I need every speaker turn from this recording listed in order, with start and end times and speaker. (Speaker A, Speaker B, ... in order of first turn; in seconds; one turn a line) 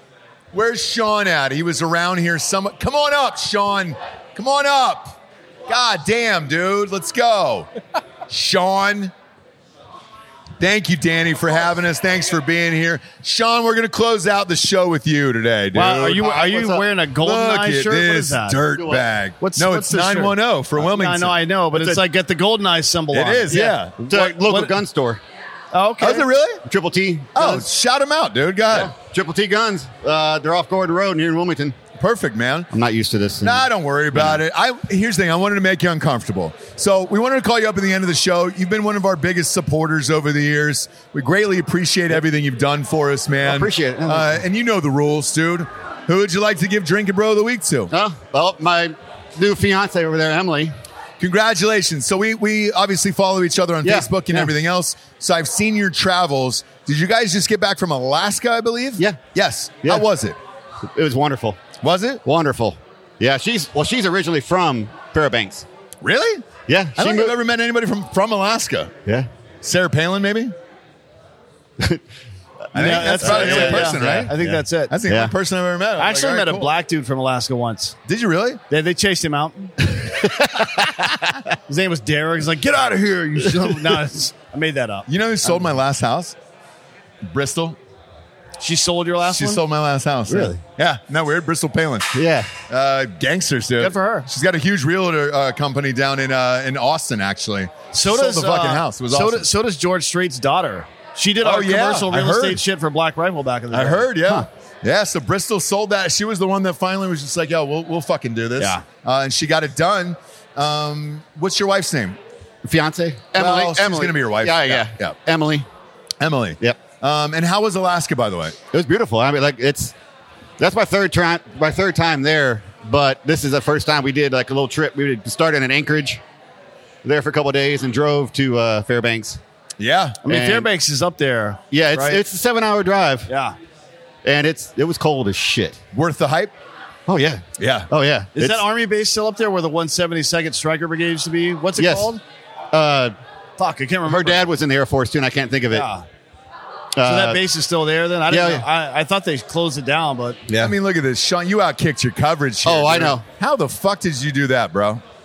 Speaker A: 0.5-5.2
Speaker A: 5.7-7.7
Speaker A: 8.3-9.1
Speaker A: 10.6-16.4
Speaker B: 15.7-18.7
Speaker C: 16.2-16.9
Speaker A: 17.2-22.0
Speaker C: 18.7-19.1
Speaker B: 19.4-24.8
Speaker A: 23.1-24.3
Speaker C: 23.5-25.2
Speaker B: 25.7-26.3
Speaker A: 26.0-26.6
Speaker C: 26.6-27.7
Speaker A: 27.4-28.9
Speaker C: 28.7-31.8
Speaker A: 32.0-32.7
Speaker C: 32.7-34.4
Speaker A: 33.4-47.9
Speaker C: 43.4-44.4
Speaker C: 47.9-50.8
Speaker A: 51.2-60.4
Speaker C: 53.8-54.5
Speaker C: 60.9-61.6
Speaker A: 61.8-62.2
Speaker C: 62.2-65.7
Speaker A: 66.0-69.0
Speaker C: 66.7-67.3
Speaker A: 69.6-70.5
Speaker A: 72.7-76.7
Speaker B: 72.7-75.0
Speaker C: 72.8-75.3
Speaker B: 76.0-78.0
Speaker A: 78.1-78.6
Speaker B: 78.7-79.8
Speaker C: 80.2-81.0
Speaker B: 81.7-85.1
Speaker A: 85.1-86.4
Speaker A: 87.2-87.8
Speaker B: 88.6-89.6
Speaker A: 89.2-99.5
Speaker C: 90.3-90.6
Speaker C: 92.1-92.5
Speaker B: 93.8-94.3
Speaker B: 97.9-104.1
Speaker A: 101.4-102.6
Speaker A: 103.7-112.2
Speaker C: 112.6-115.7
Speaker A: 113.3-115.2
Speaker A: 116.2-118.6
Speaker C: 118.7-120.0
Speaker C: 120.6-126.2
Speaker C: 127.0-129.4
Speaker A: 129.8-130.2
Speaker B: 130.2-132.2
Speaker C: 130.3-130.7
Speaker C: 131.7-133.3
Speaker B: 133.3-133.6
Speaker C: 134.2-135.8
Speaker A: 135.9-136.5
Speaker C: 137.1-138.6
Speaker A: 137.6-137.9
Speaker B: 138.3-142.2
Speaker C: 141.8-142.2
Speaker C: 142.7-143.2
Speaker B: 143.6-144.4
Speaker C: 144.1-145.9
Speaker B: 145.7-146.1
Speaker C: 147.0-147.4
Speaker B: 147.0-150.4
Speaker C: 148.3-148.7
Speaker C: 150.5-150.7
Speaker A: 150.6-155.0
Speaker C: 152.6-153.2